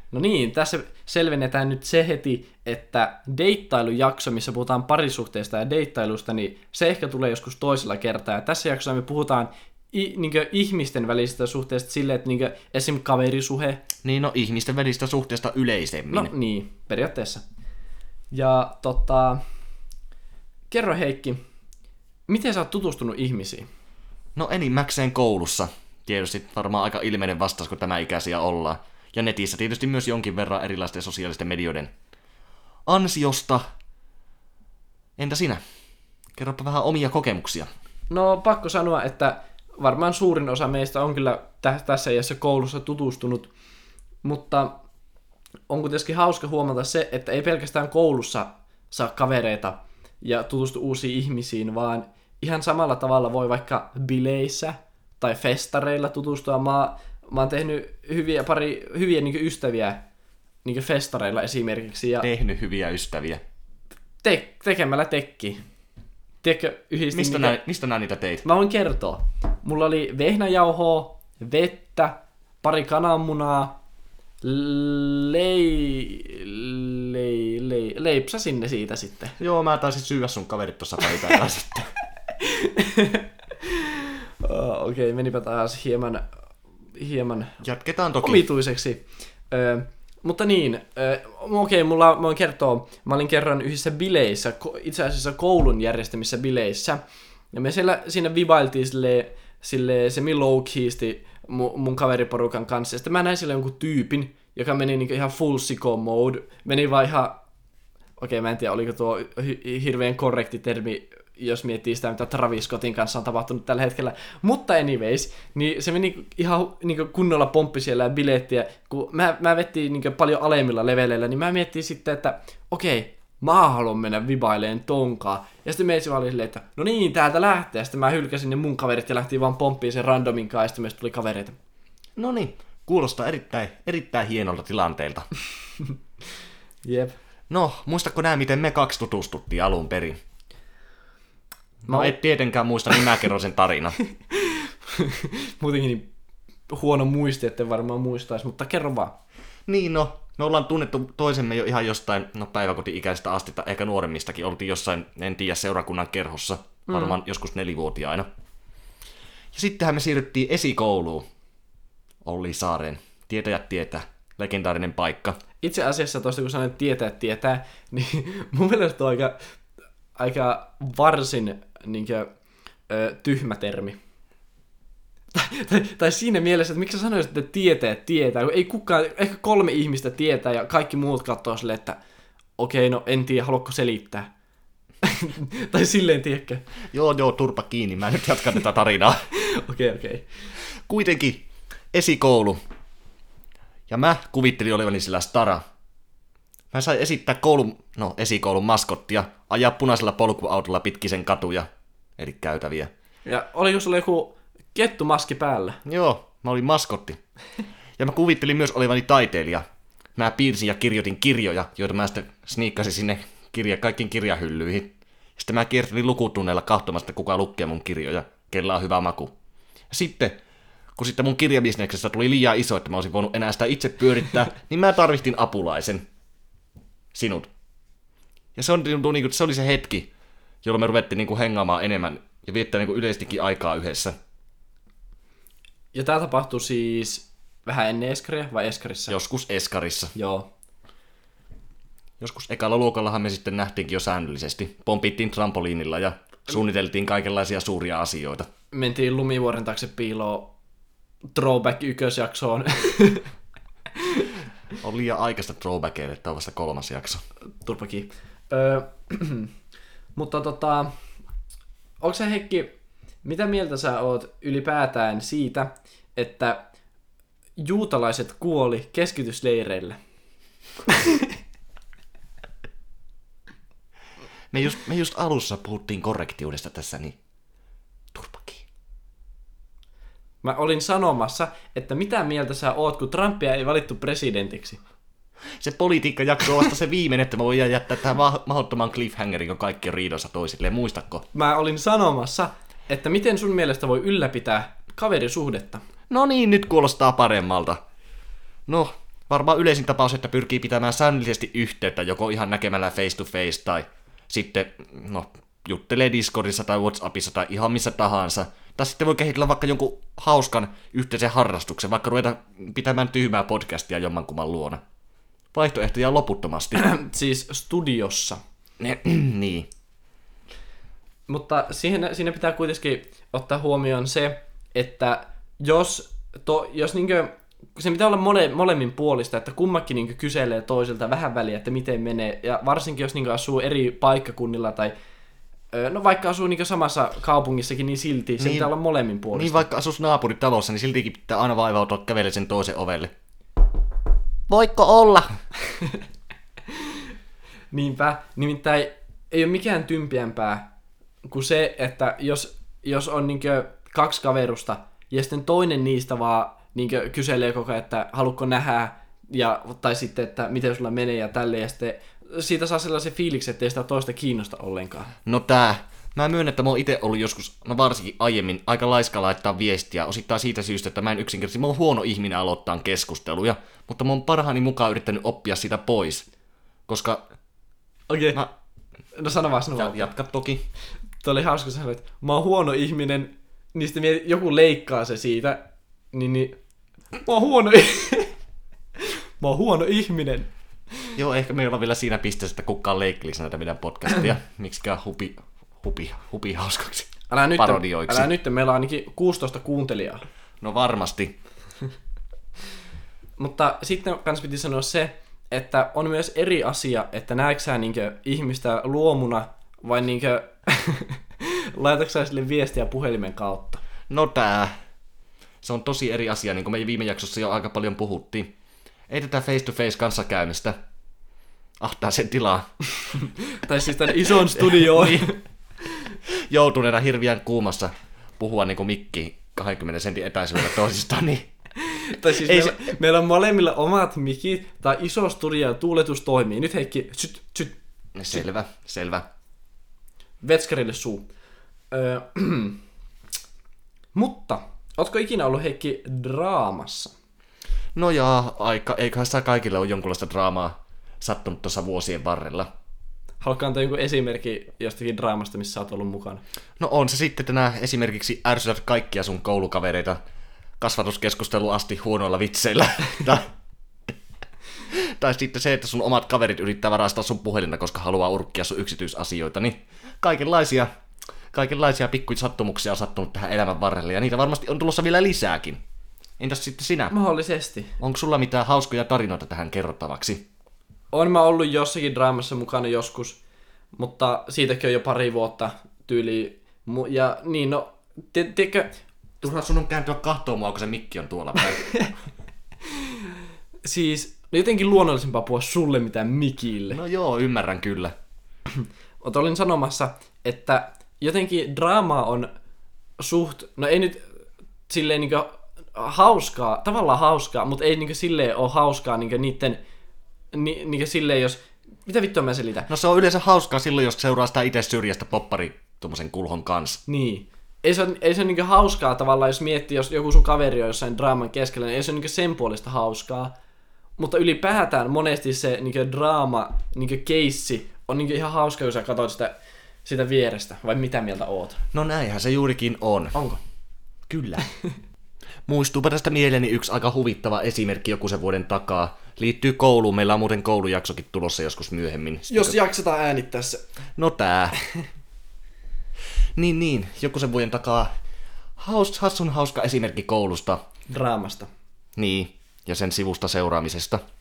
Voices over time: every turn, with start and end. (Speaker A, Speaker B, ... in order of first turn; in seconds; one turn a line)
Speaker A: 0.1-13.8
Speaker B: 14.0-16.3
Speaker A: 16.1-17.4
Speaker A: 18.3-19.4
Speaker A: 20.7-21.4
Speaker A: 22.3-23.7
Speaker B: 24.4-31.9
Speaker B: 32.9-33.6
Speaker B: 35.2-35.6
Speaker B: 36.4-37.7
Speaker A: 38.1-43.5
Speaker A: 44.2-44.7
Speaker A: 45.7-60.0
Speaker A: 60.6-62.3
Speaker B: 62.2-63.4
Speaker A: 64.2-65.6
Speaker A: 66.4-67.6
Speaker B: 67.1-68.4
Speaker A: 68.4-73.7
Speaker A: 74.4-79.3
Speaker B: 79.4-81.9
Speaker A: 82.4-86.2
Speaker A: 86.9-87.6
Speaker B: 87.6-88.4
Speaker A: 88.2-97.0
Speaker A: 97.5-107.4
Speaker A: 108.2-131.6
Speaker B: 132.2-135.3
Speaker A: 136.8-137.2
Speaker B: 137.5-140.2
Speaker B: 141.8-144.0
Speaker A: 141.9-142.1
Speaker A: 144.3-146.1
Speaker A: 146.7-149.2
Speaker B: 149.7-158.3
Speaker A: 156.9-157.2
Speaker B: 159.5-161.2
Speaker B: 162.2-165.4
Speaker A: 165.6-169.4
Speaker A: 170.2-172.3
Speaker A: 172.9-174.0
Speaker A: 175.3-182.0
Speaker A: 182.6-184.3
Speaker A: 185.0-186.6
Speaker B: 186.9-189.2
Speaker A: 189.3-190.3
Speaker B: 190.8-192.6
Speaker B: 193.9-195.6
Speaker B: 196.7-201.7
Speaker B: 202.2-202.9
Speaker A: 203.2-205.8
Speaker B: 205.8-207.2
Speaker B: 208.0-209.6
Speaker B: 210.2-219.3
Speaker B: 219.9-220.4
Speaker B: 220.9-226.0
Speaker B: 227.1-227.5
Speaker B: 228.5-230.1
Speaker B: 230.6-234.1
Speaker A: 235.9-239.2
Speaker B: 239.1-240.1
Speaker A: 240.1-240.5
Speaker B: 242.2-248.5
Speaker A: 248.7-250.5
Speaker A: 251.3-253.3
Speaker A: 254.0-254.3
Speaker B: 254.8-257.2
Speaker A: 257.6-259.5
Speaker A: 260.1-260.9
Speaker A: 262.0-266.7
Speaker A: 267.6-270.0
Speaker A: 270.9-271.3
Speaker B: 274.5-277.1
Speaker B: 278.1-278.6
Speaker A: 280.4-284.8
Speaker B: 285.6-291.2
Speaker A: 291.3-295.8
Speaker B: 296.1-297.8
Speaker B: 298.7-314.8
Speaker B: 315.5-316.8
Speaker A: 316.7-318.4
Speaker B: 318.8-319.7
Speaker A: 321.3-334.9
Speaker A: 335.7-339.7
Speaker B: 338.4-338.7
Speaker B: 339.3-343.1
Speaker B: 344.5-345.3
Speaker A: 347.7-350.7
Speaker A: 351.2-365.1
Speaker B: 365.2-376.2
Speaker B: 376.9-377.2
Speaker A: 378.1-378.4
Speaker A: 379.1-380.1
Speaker B: 379.8-380.6
Speaker A: 381.2-386.6
Speaker A: 387.1-388.3
Speaker A: 389.0-390.5
Speaker B: 391.1-398.3
Speaker A: 397.3-400.2
Speaker B: 400.6-401.4
Speaker A: 403.4-413.8
Speaker B: 414.1-414.7
Speaker B: 415.6-418.5
Speaker B: 419.1-420.8
Speaker B: 421.8-422.7
Speaker A: 423.2-425.4
Speaker B: 424.5-425.3
Speaker B: 426.3-431.5
Speaker A: 431.8-437.8
Speaker B: 432.3-432.8
Speaker B: 438.1-439.2
Speaker A: 440.4-441.3
Speaker A: 441.9-442.8
Speaker A: 444.1-447.1
Speaker B: 447.9-452.7
Speaker A: 453.4-456.4
Speaker B: 456.8-460.2
Speaker B: 460.8-463.5
Speaker B: 464.9-470.9
Speaker B: 471.5-475.8
Speaker B: 476.4-477.1
Speaker A: 477.1-478.0
Speaker B: 478.0-480.4
Speaker A: 481.1-483.4
Speaker A: 483.9-489.0
Speaker B: 489.4-491.9
Speaker A: 491.6-492.1
Speaker A: 493.8-497.0
Speaker B: 496.9-498.1
Speaker A: 499.2-502.5
Speaker A: 503.2-504.3
Speaker A: 504.9-509.8
Speaker A: 510.5-512.9
Speaker B: 512.9-517.0
Speaker A: 517.1-523.5
Speaker A: 524.2-531.8
Speaker B: 531.9-533.4
Speaker A: 533.3-533.6
Speaker B: 534.3-534.7
Speaker B: 535.7-542.8
Speaker A: 542.5-543.8
Speaker B: 544.1-544.8
Speaker B: 546.5-548.1
Speaker B: 548.8-550.8
Speaker A: 551.1-551.7
Speaker B: 552.1-554.2